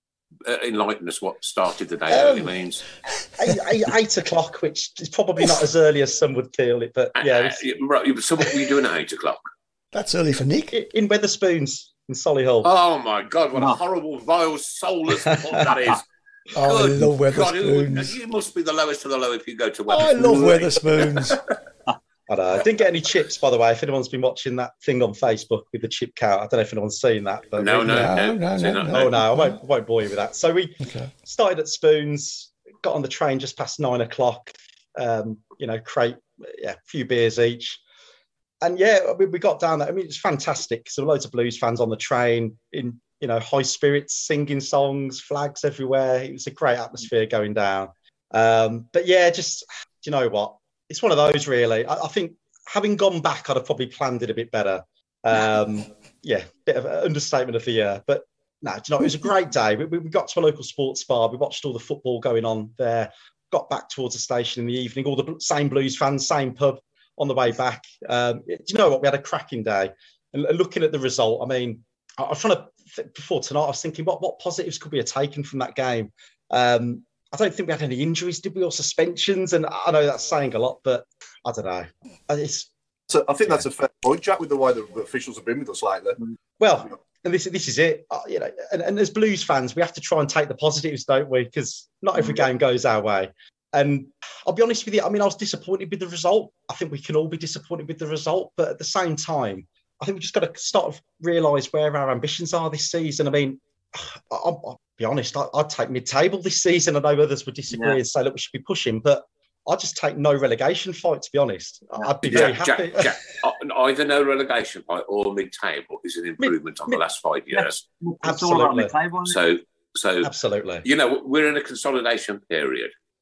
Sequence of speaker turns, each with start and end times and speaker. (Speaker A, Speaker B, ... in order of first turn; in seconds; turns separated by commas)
Speaker A: 0.5-2.9, Speaker B: 3.4-7.7, Speaker A: 7.2-9.4, Speaker C: 9.9-10.8, Speaker B: 10.7-12.7, Speaker A: 12.6-16.1, Speaker C: 16.6-18.2, Speaker A: 16.6-21.3, Speaker C: 19.9-21.4, Speaker B: 22.3-28.1, Speaker A: 27.6-29.2, Speaker C: 27.8-29.6, Speaker B: 28.9-37.8, Speaker C: 30.8-31.1, Speaker B: 38.6-82.7, Speaker D: 83.1-86.2, Speaker B: 86.6-113.1, Speaker E: 107.7-108.0, Speaker A: 112.3-117.8, Speaker B: 116.4-117.0, Speaker E: 117.5-119.4, Speaker B: 118.2-119.0, Speaker A: 119.3-120.3, Speaker B: 120.2-120.9, Speaker A: 120.8-122.9